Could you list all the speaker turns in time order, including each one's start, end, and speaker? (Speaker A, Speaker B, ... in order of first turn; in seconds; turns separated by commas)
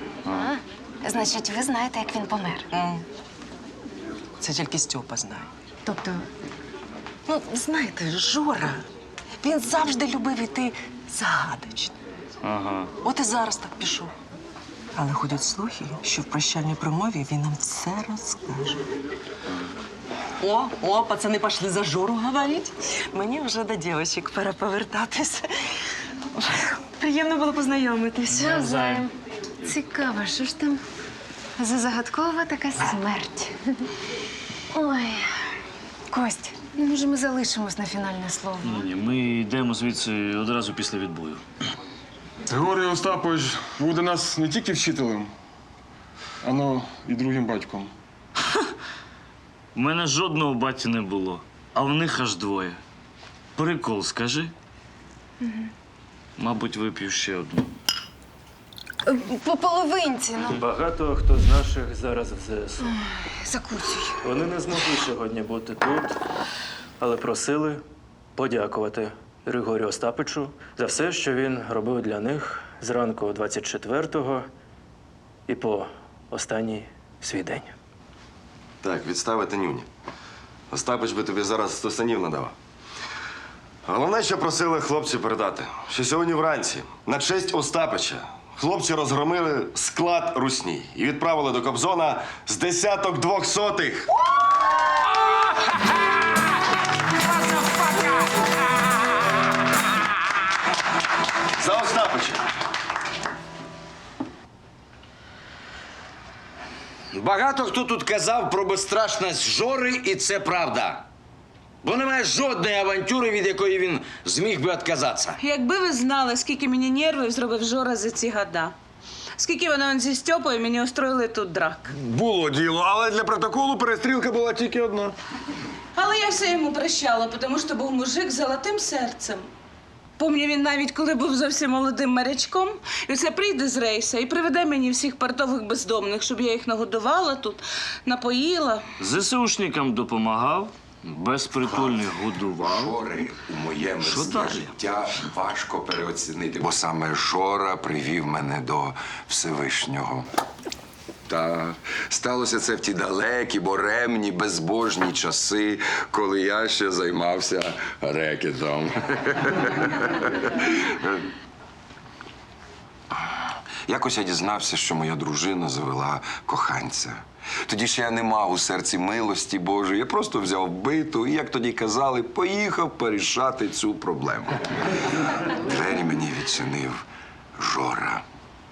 Speaker A: 0.3-2.7, Speaker B: 2.7-3.0, Speaker B: 4.4-5.5, Speaker A: 5.8-6.2, Speaker B: 7.2-8.8, Speaker B: 9.4-11.9, Speaker C: 12.4-12.9, Speaker B: 13.0-14.1, Speaker B: 14.9-18.8, Speaker B: 20.4-25.5, Speaker B: 27.0-28.6, Speaker A: 28.3-29.1, Speaker C: 28.4-29.1, Speaker A: 29.6-30.8, Speaker A: 31.6-33.6, Speaker A: 34.7-35.2, Speaker A: 36.1-38.8, Speaker C: 38.6-41.4, Speaker D: 42.5-45.3, Speaker D: 46.4-47.9, Speaker C: 49.7-52.8, Speaker C: 53.5-54.5, Speaker A: 55.4-55.7, Speaker C: 56.4-57.7, Speaker A: 59.0-60.6, Speaker E: 60.5-62.9, Speaker A: 62.8-64.2, Speaker E: 64.2-66.1, Speaker E: 67.0-67.8, Speaker E: 68.3-74.5, Speaker E: 75.5-77.7, Speaker F: 78.8-79.9, Speaker F: 80.7-82.5, Speaker F: 83.8-94.1, Speaker F: 101.6-102.4, Speaker G: 107.1-111.0, Speaker G: 111.8-115.4, Speaker H: 115.4-118.8, Speaker H: 119.3-121.9, Speaker I: 121.9-125.1, Speaker H: 125.9-129.5, Speaker H: 130.2-138.8, Speaker C: 139.0-143.0, Speaker J: 141.6-150.3, Speaker C: 144.0-144.7, Speaker J: 151.3-161.3, Speaker J: 163.9-177.0, Speaker J: 177.6-178.2